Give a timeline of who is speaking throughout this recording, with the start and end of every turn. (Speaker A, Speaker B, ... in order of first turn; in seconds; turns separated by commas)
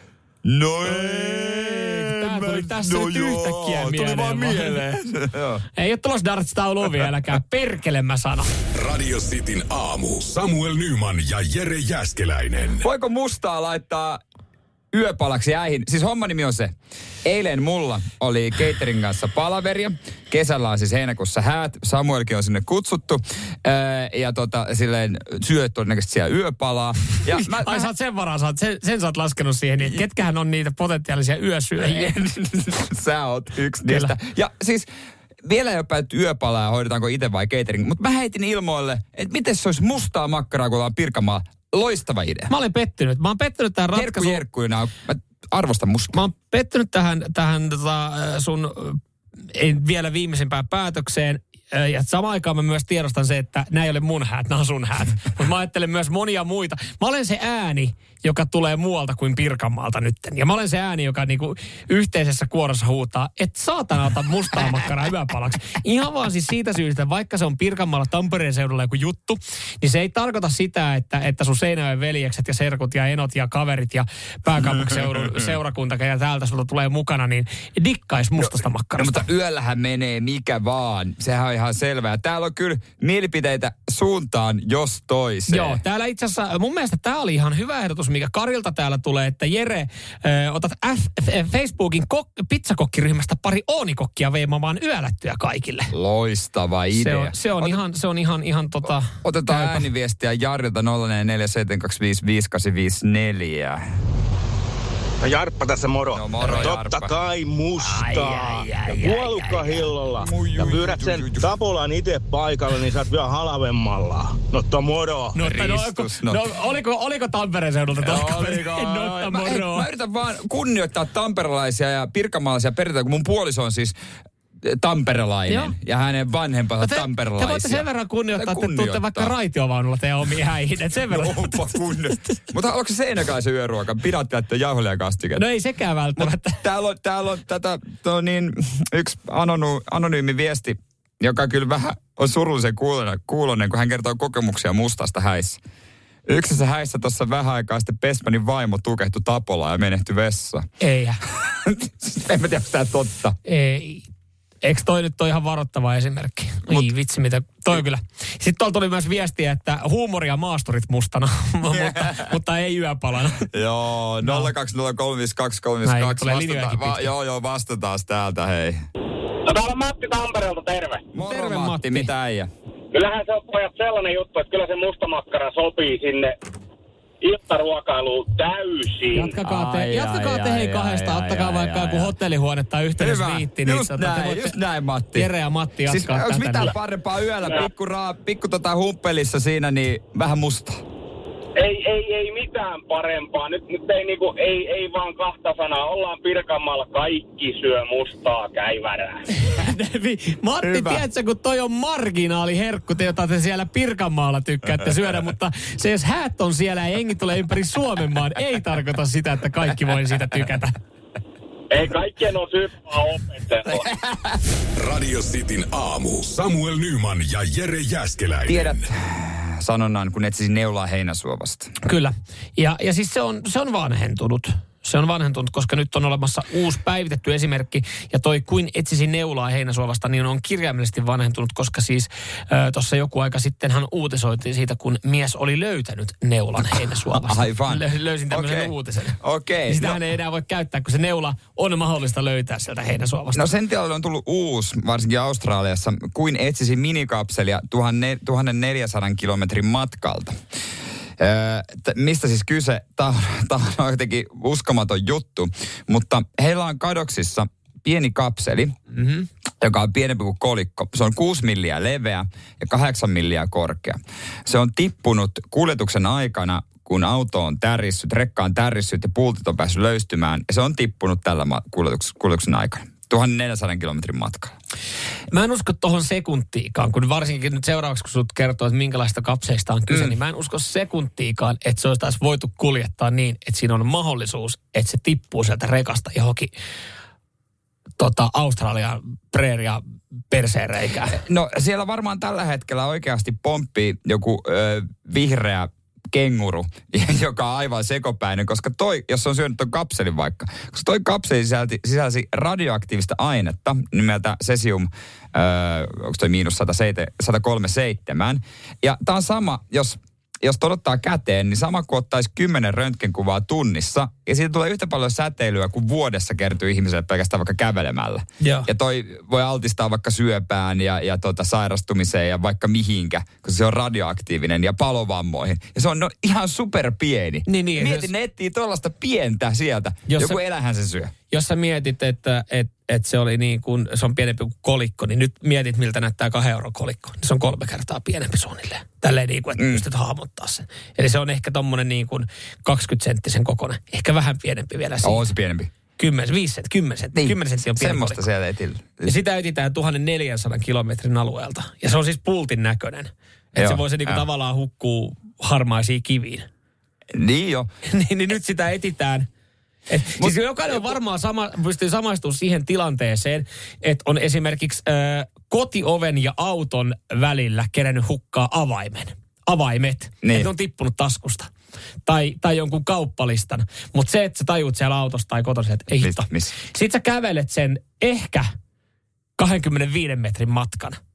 Speaker A: 0.5-5.6, Speaker B: 0.9-4.8, Speaker B: 5.8-8.5, Speaker C: 8.7-12.8, Speaker A: 12.8-14.2, Speaker A: 14.9-16.7, Speaker A: 17.2-27.9, Speaker B: 27.3-32.2, Speaker A: 31.8-34.9, Speaker B: 33.9-34.1, Speaker A: 35.5-42.5, Speaker B: 42.5-44.4, Speaker A: 43.9-46.2, Speaker B: 46.1-49.0, Speaker B: 49.5-79.2, Speaker A: 74.6-75.6, Speaker A: 78.4-85.8, Speaker B: 85.5-95.9, Speaker A: 95.9-97.8, Speaker B: 96.9-99.9, Speaker A: 99.2-103.8, Speaker D: 105.2-115.4, Speaker A: 106.1-107.2, Speaker B: 107.8-109.9, Speaker A: 110.2-111.5, Speaker B: 115.3-119.9, Speaker A: 115.4-116.4, Speaker A: 118.0-124.0, Speaker A: 124.6-129.3, Speaker B: 125.5-125.7, Speaker B: 126.8-131.8, Speaker A: 131.1-135.4, Speaker B: 135.4-136.6, Speaker A: 136.2-145.6, Speaker A: 146.3-150.7, Speaker B: 150.8-151.2, Speaker A: 151.4-153.3, Speaker B: 153.4-154.1, Speaker B: 154.6-163.5, Speaker A: 161.7-162.3, Speaker A: 163.5-168.8, Speaker B: 164.2-164.5, Speaker B: 165.8-167.1, Speaker E: 169.5-171.0, Speaker A: 171.1-172.5, Speaker B: 171.2-172.1, Speaker E: 172.9-176.4, Speaker E: 177.2-179.3, Speaker B: 179.1-184.6, Speaker A: 179.4-182.1, Speaker A: 183.0-185.3, Speaker B: 185.1-186.8, Speaker A: 185.9-190.8, Speaker E: 191.6-199.2, Speaker B: 199.4-210.8, Speaker A: 200.6-201.1, Speaker E: 211.7-213.8, Speaker A: 213.7-214.4, Speaker C: 214.8-218.8, Speaker A: 218.5-221.7, Speaker B: 221.8-243.5, Speaker A: 237.1-240.0, Speaker A: 243.3-250.3, Speaker A: 251.2-258.7, Speaker B: 258.9-259.3, Speaker A: 259.6-274.6, Speaker B: 275.3-286.5, Speaker A: 279.9-280.1, Speaker B: 288.0-291.2, Speaker A: 291.1-331.1, Speaker B: 318.4-318.7, Speaker B: 327.5-328.1, Speaker B: 330.1-330.4, Speaker B: 331.3-345.3, Speaker A: 339.6-339.9, Speaker A: 345.0-345.7, Speaker B: 346.0-348.2, Speaker A: 347.1-349.1, Speaker B: 349.1-356.5, Speaker A: 353.6-354.2, Speaker A: 357.1-357.7, Speaker B: 357.9-359.3, Speaker B: 359.9-371.5, Speaker A: 360.2-360.9, Speaker A: 370.2-370.5, Speaker B: 372.1-378.5, Speaker A: 376.0-376.5, Speaker B: 379.4-381.0